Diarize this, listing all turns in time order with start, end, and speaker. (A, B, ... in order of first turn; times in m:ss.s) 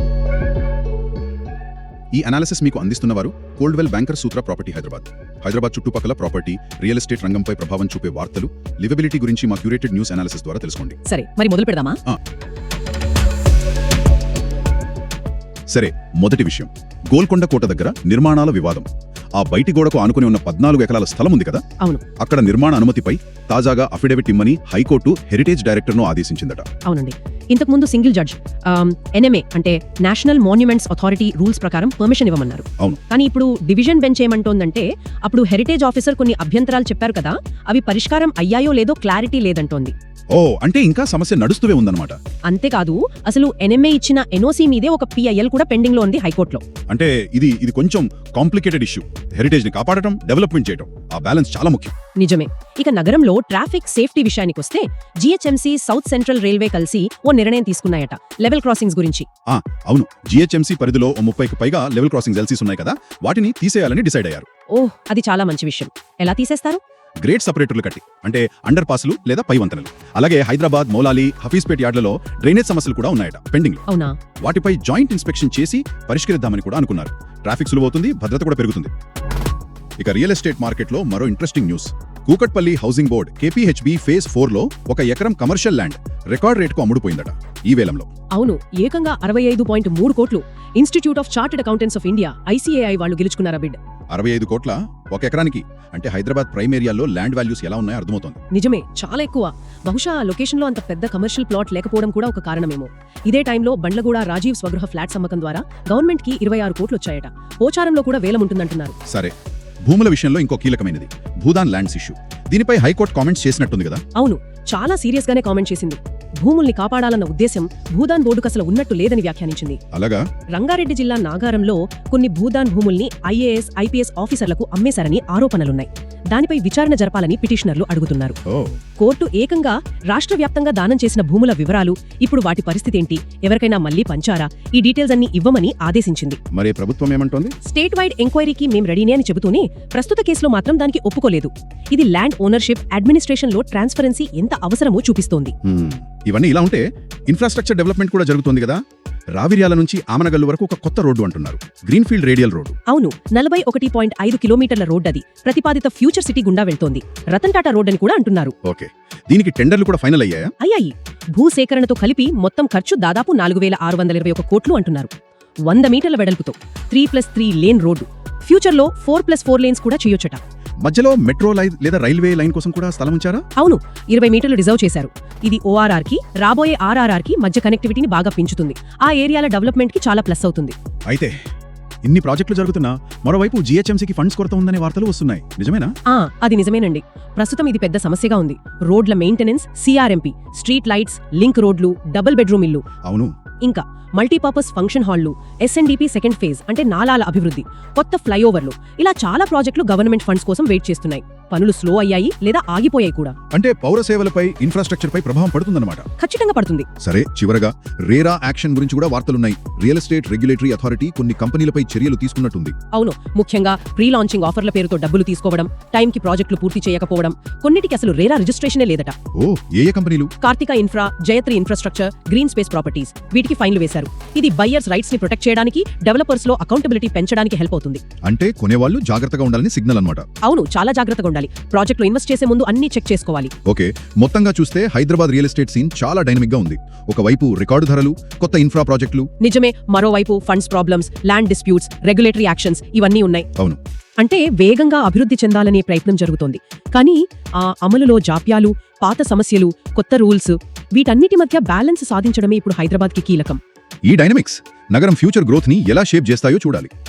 0:02.1-0:11.0 A
0:11.1-0:12.0 B
0:15.7-0:21.6 A
0:22.2-0:26.7 A
0:26.8-0:40.0 B
0:40.3-0:42.2 A
0:42.5-0:46.6 B
0:46.9-0:52.0 A
0:52.2-0:59.3 B
0:59.5-1:04.5 A
1:04.7-1:06.8 B
1:07.2-1:13.8 A
1:13.9-1:14.2 B
1:14.4-1:18.9 A
1:20.0-1:28.1 A
1:28.3-1:33.8 B
1:34.1-1:38.4 A
1:38.5-1:49.0 B
1:49.0-1:49.3 A
1:49.9-1:54.0 A
1:54.1-1:59.8 B
1:59.9-2:00.2 A
2:00.5-2:08.4 B
2:08.5-2:08.8 A
2:09.0-2:16.4 B
2:16.5-2:17.5 A
2:17.6-2:25.6 B
2:25.6-2:28.8 A
2:29.4-2:32.8 A
2:32.9-2:38.6 B
2:38.6-2:40.5 A
2:40.6-2:45.1 B
2:45.7-2:50.4 B
2:50.8-2:53.4 A
2:53.6-3:00.8 B
3:01.1-3:01.4 A
3:02.0-3:05.9 A
3:06.1-3:12.8 B
3:13.0-3:13.3 A
3:13.6-3:23.4 B
3:23.5-3:26.1 A
3:26.2-3:26.9 B
3:27.0-3:32.8 A
3:32.9-3:39.2 B
3:39.3-3:40.3 A
3:40.4-3:48.0 B
3:48.2-3:50.3 A
3:50.4-3:53.5 B
3:53.7-3:59.3 A
3:59.4-4:03.5 B
4:04.2-4:13.6 B
4:14.1-4:16.9 A